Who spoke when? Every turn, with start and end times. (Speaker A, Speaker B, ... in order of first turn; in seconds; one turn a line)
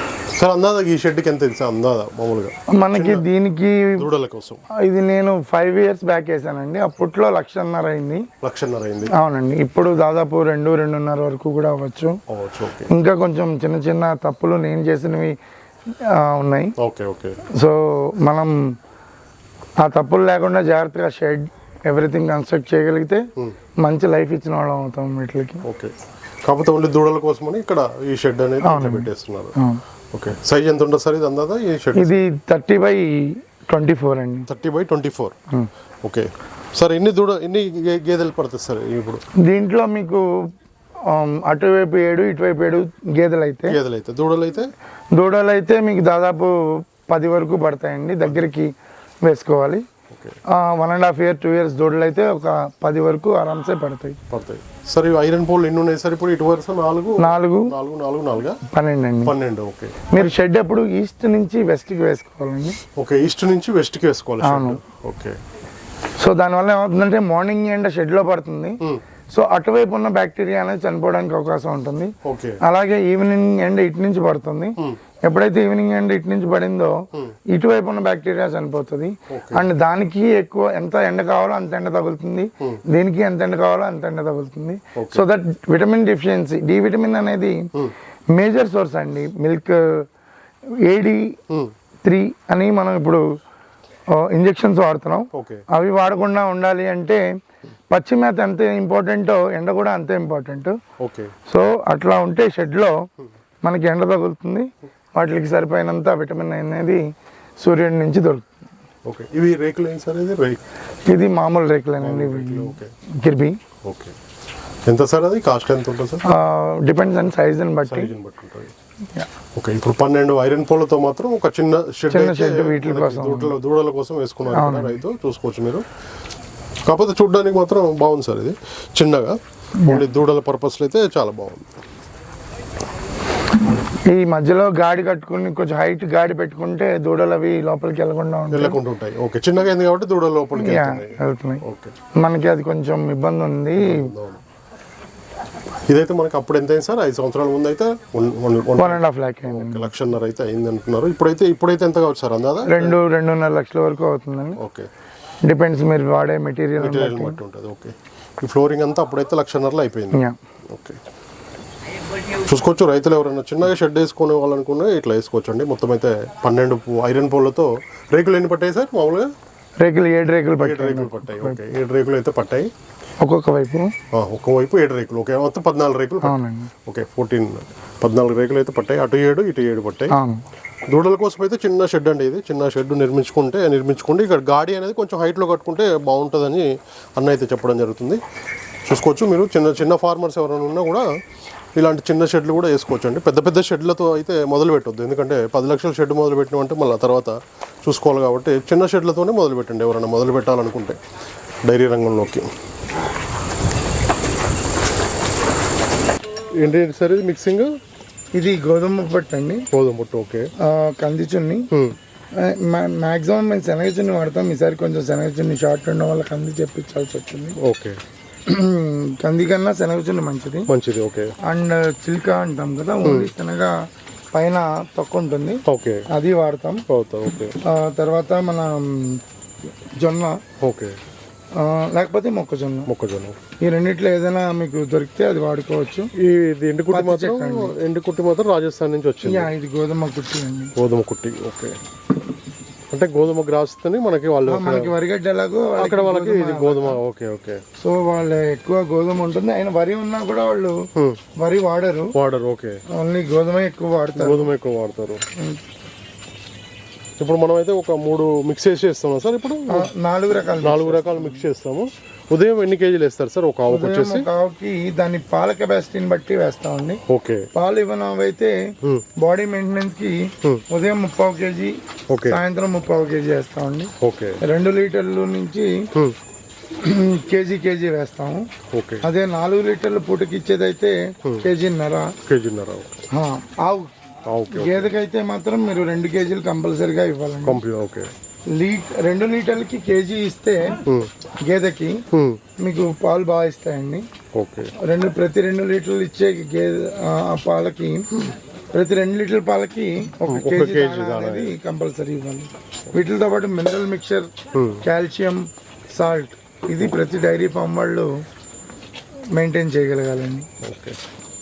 Speaker A: 0.3-3.3
Speaker B: 2.7-4.1
Speaker A: 4.0-4.6
Speaker B: 4.8-8.3
Speaker A: 8.4-9.1
Speaker B: 9.1-12.2
Speaker A: 12.3-12.9
Speaker B: 12.9-15.3
Speaker B: 16.0-16.7
Speaker A: 16.8-17.4
Speaker B: 17.5-18.6
Speaker B: 19.8-23.2
Speaker B: 23.8-25.6
Speaker A: 25.6-25.9
Speaker A: 26.5-29.6
Speaker B: 28.6-29.8
Speaker A: 30.1-32.2
Speaker B: 31.9-34.5
Speaker A: 34.5-35.4
Speaker A: 36.0-39.2
Speaker B: 39.5-40.2
Speaker B: 41.1-43.8
Speaker A: 43.7-44.7
Speaker B: 45.1-48.7
Speaker B: 49.2-49.8
Speaker A: 50.1-50.4
Speaker B: 50.5-54.2
Speaker A: 54.3-58.6
Speaker B: 57.2-57.7
Speaker B: 58.7-59.3
Speaker A: 59.2-60.2
Speaker B: 60.1-62.8
Speaker A: 63.0-65.4
Speaker B: 64.4-64.8
Speaker B: 66.2-87.7
Speaker A: 72.2-72.6
Speaker A: 79.3-79.7
Speaker A: 85.0-85.3
Speaker B: 88.3-90.1
Speaker B: 90.8-91.4
Speaker B: 92.0-93.2
Speaker B: 94.2-97.2
Speaker A: 95.3-95.6
Speaker B: 97.9-100.7
Speaker A: 101.0-101.3
Speaker B: 101.5-103.0
Speaker B: 103.6-107.0
Speaker B: 107.6-108.5
Speaker A: 109.1-110.6
Speaker B: 111.1-113.6
Speaker A: 112.0-112.9
Speaker A: 113.8-114.2
Speaker A: 114.9-116.2
Speaker B: 116.2-118.1
Speaker A: 117.8-118.7
Speaker A: 119.6-125.8
Speaker B: 122.1-123.5
Speaker B: 124.5-125.0
Speaker A: 126.9-131.8
Speaker B: 134.1-138.8
Speaker A: 138.5-141.9
Speaker B: 140.6-141.6
Speaker B: 142.2-144.1
Speaker A: 143.8-144.4
Speaker A: 145.9-153.0
Speaker B: 148.8-149.9
Speaker B: 152.7-154.6
Speaker A: 154.6-154.9
Speaker B: 155.5-157.4
Speaker A: 156.8-161.0
Speaker A: 162.3-169.3
Speaker B: 169.8-171.6
Speaker A: 170.6-172.7
Speaker B: 173.2-173.9
Speaker A: 174.1-180.2
Speaker B: 176.2-176.7
Speaker B: 180.1-180.4
Speaker A: 180.9-188.2
Speaker A: 188.9-191.1
Speaker A: 191.8-201.0
Speaker A: 201.6-202.5
Speaker A: 206.6-207.7
Speaker B: 208.3-209.7
Speaker A: 209.7-210.5
Speaker B: 210.6-211.7
Speaker A: 211.7-212.0
Speaker B: 212.4-217.6
Speaker A: 217.6-218.0
Speaker B: 218.5-220.7
Speaker A: 220.7-221.3
Speaker B: 221.4-223.7
Speaker A: 223.0-223.3
Speaker B: 224.3-226.8
Speaker A: 225.7-226.1
Speaker A: 226.9-227.5
Speaker B: 227.7-229.2
Speaker B: 230.0-230.4
Speaker A: 230.6-231.0
Speaker B: 231.6-232.9
Speaker A: 232.9-233.4
Speaker B: 233.6-236.1
Speaker A: 236.2-239.5
Speaker B: 236.9-237.7
Speaker B: 239.2-240.7
Speaker A: 240.8-241.8
Speaker A: 242.9-244.9
Speaker B: 244.5-247.0
Speaker A: 245.8-247.6
Speaker B: 247.8-250.8
Speaker A: 251.0-251.2
Speaker B: 251.4-252.1
Speaker A: 252.2-252.8
Speaker B: 252.9-254.5
Speaker A: 254.1-255.2
Speaker A: 257.2-259.9
Speaker B: 259.7-261.4
Speaker A: 260.6-264.3
Speaker B: 263.7-267.0
Speaker A: 267.1-267.5
Speaker B: 267.5-268.5
Speaker B: 269.2-275.9
Speaker A: 272.1-272.4
Speaker A: 274.0-274.4
Speaker B: 276.8-278.5
Speaker A: 278.7-279.1
Speaker B: 279.0-282.1
Speaker A: 282.2-283.0
Speaker B: 283.1-283.9
Speaker A: 284.3-284.9
Speaker B: 284.5-287.6
Speaker A: 287.4-288.1
Speaker B: 288.5-290.8
Speaker A: 290.9-291.1
Speaker B: 291.4-292.0
Speaker A: 292.1-292.4
Speaker B: 292.6-294.1
Speaker A: 294.3-294.7
Speaker B: 294.8-304.3
Speaker A: 300.3-301.6
Speaker A: 304.6-304.8
Speaker B: 304.8-308.1
Speaker B: 309.4-310.5
Speaker A: 310.6-311.0